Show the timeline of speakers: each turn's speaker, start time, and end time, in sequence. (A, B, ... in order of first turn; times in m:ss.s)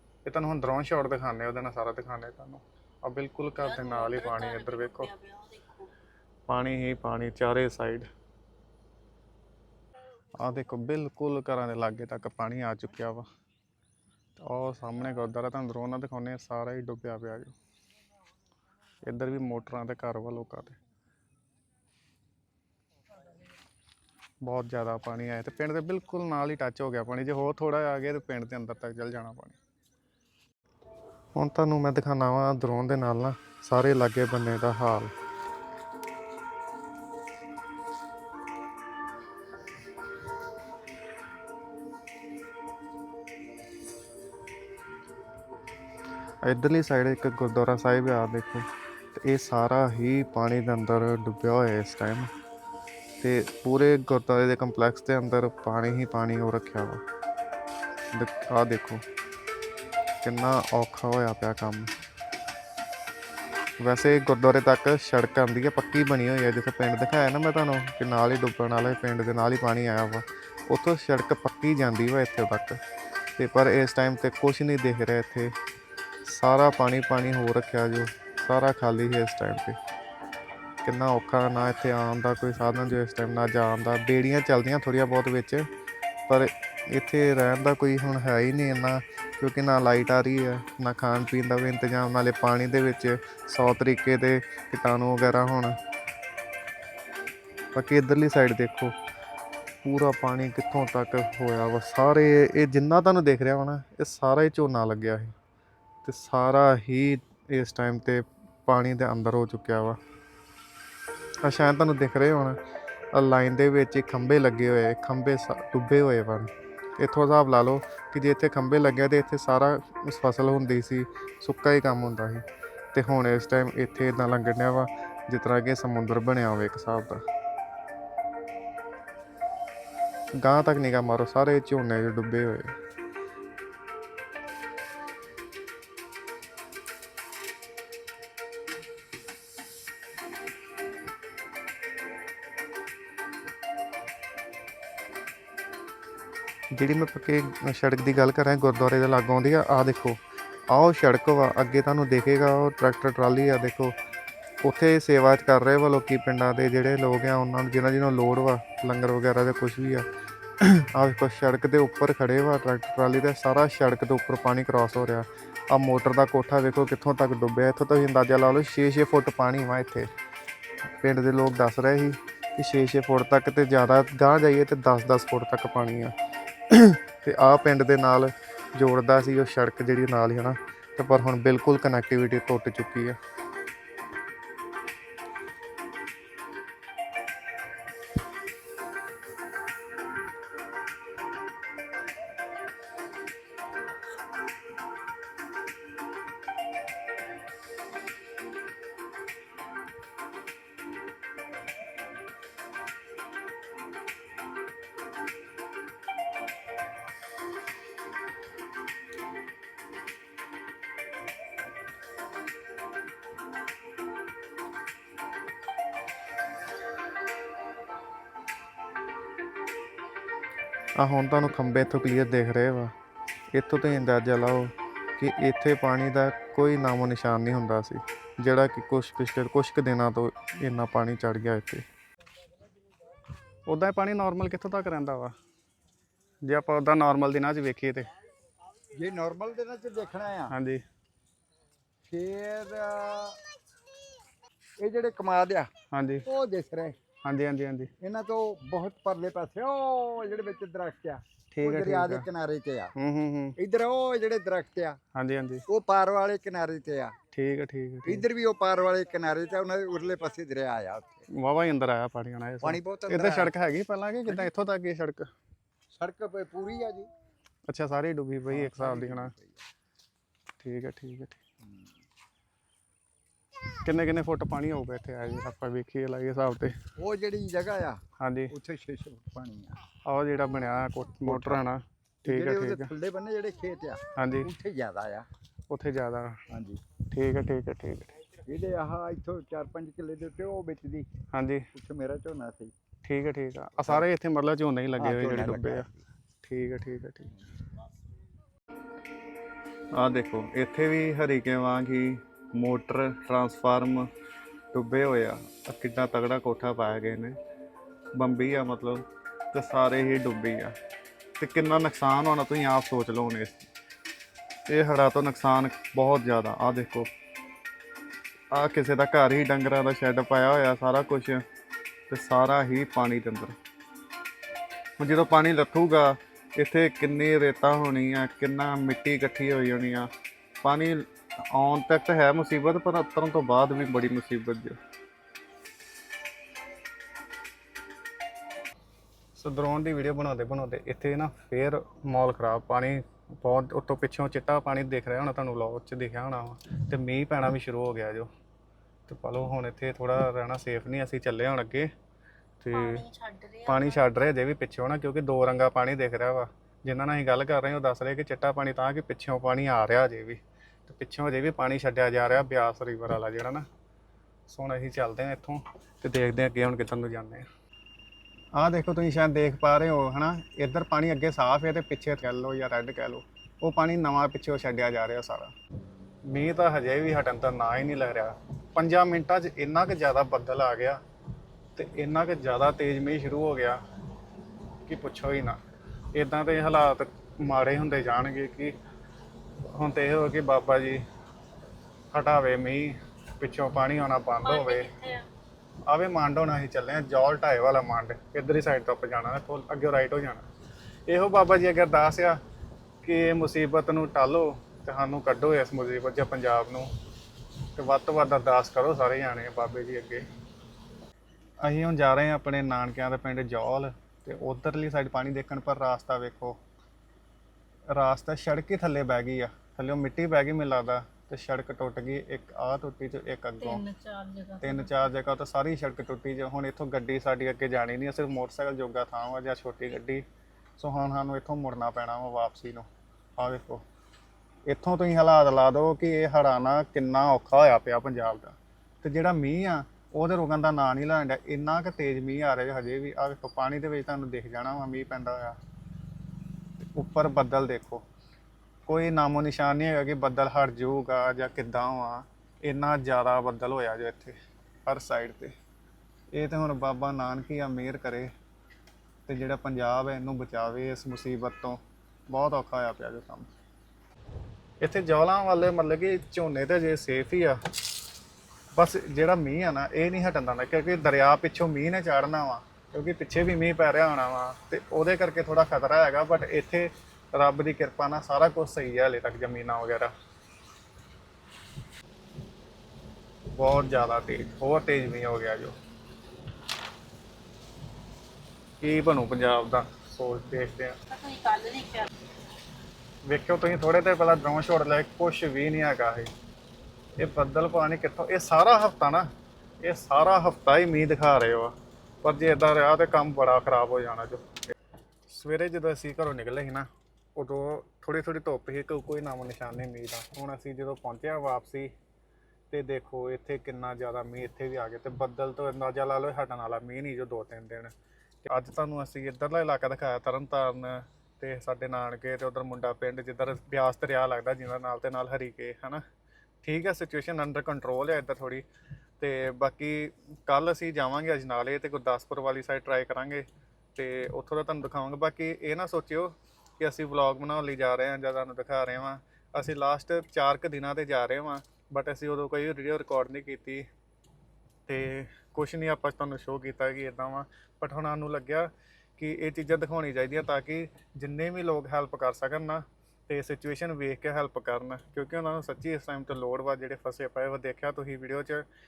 0:00.2-0:05.1 A
0:03.6-0:05.9 B
0:06.5-0:08.1 A
0:10.4-0:13.3 A
0:14.4-0:17.5 A
0:19.0-0:20.8 A
0:24.4-0:29.6 A
0:31.4-0:35.1 A
0:46.4-0:52.3 A
0:53.2-0:57.0 A
0:58.1-0:59.0 A
1:00.2-1:01.9 A
1:03.8-1:12.8 A
1:13.4-1:15.6 A
1:16.2-1:19.8 A
1:20.8-1:25.7 A
1:26.3-1:35.8 A
1:37.8-1:39.0 A
1:39.8-1:45.3 A
1:46.0-1:50.0 A
1:51.4-1:52.6 A
1:53.1-2:07.2 A
2:10.4-2:12.7 A
2:26.7-2:34.0 A
2:34.6-2:40.0 A
2:40.6-2:50.1 A
2:51.0-2:56.1 A
2:56.7-3:03.2 A
3:41.0-3:42.9 A
3:43.5-3:51.8 A
3:53.7-3:55.3 A
3:56.4-3:58.1 A
3:58.9-4:00.5 C
4:00.5-4:00.8 A
4:02.1-4:03.4 C
4:04.8-4:05.7 C
4:05.9-4:06.2 A
4:06.3-4:07.0 C
4:07.2-4:07.9 A
4:08.0-4:12.9 C
4:11.5-4:12.3 A
4:13.0-4:13.6 A
4:13.6-4:15.0 C
4:15.2-4:15.6 A
4:15.7-4:17.2 C
4:17.3-4:18.3 A
4:18.0-4:21.3 C
4:21.3-4:25.3 A
4:22.6-4:23.5 C
4:26.0-4:27.1 C
4:27.7-4:29.4 A
4:28.5-4:29.6 C
4:30.6-4:31.4 A
4:31.6-4:31.9 C
4:33.8-4:36.8 A
4:37.0-4:39.8 C
4:38.2-4:38.5 A
4:40.0-4:42.9 A
4:41.2-4:41.6 C
4:42.2-4:45.3 C
4:44.2-4:44.5 A
4:45.7-4:46.4 A
4:46.5-4:46.8 C
4:47.1-4:48.2 A
4:48.4-4:51.1 C
4:51.3-4:51.7 A
4:51.7-4:52.7 C
4:53.0-4:55.9 A
4:55.0-4:56.0 C
4:56.4-4:57.4 A
5:00.0-5:04.1 A
5:04.7-5:07.4 A
5:08.2-5:10.8 A
5:11.4-5:13.7 A
5:14.7-5:17.1 A
5:18.5-5:21.4 A
5:22.1-5:23.6 A
5:25.0-5:30.1 A
5:30.6-5:34.8 A
5:39.4-5:48.3 A
5:49.1-5:51.9 A
5:52.6-5:53.0 A
5:52.7-5:54.3 B
5:53.7-6:03.6 A
6:04.5-6:07.5 A
6:08.6-6:15.5 A
6:16.3-6:21.0 A
6:21.8-6:23.8 A
6:24.9-6:25.6 A
6:26.1-6:28.8 A
6:29.6-6:31.0 A
6:32.1-6:34.9 A
6:34.4-6:35.3 B
6:35.9-6:40.5 A
6:41.1-6:42.4 A
6:43.0-6:46.9 A
6:47.8-6:50.2 A
6:51.6-6:56.6 A
6:57.9-7:03.8 A
7:03.6-7:05.0 B
7:04.6-7:10.2 A
7:10.8-7:13.8 A
7:14.7-7:25.6 A
7:26.8-7:28.0 A
7:28.9-7:35.5 A
7:36.3-7:38.3 A
7:39.3-7:43.5 A
7:44.8-7:47.6 A
7:48.8-8:00.1 A
8:03.6-8:05.8 A
8:08.8-8:11.0 A
8:11.1-8:12.1 B
8:13.3-8:16.3 A
8:17.2-8:19.3 A
8:19.8-8:24.5 A
8:25.3-8:31.9 A
8:32.7-8:37.9 A
8:38.4-8:46.0 A
8:46.6-8:48.6 A
8:49.2-9:03.8 A
9:04.9-9:18.7 A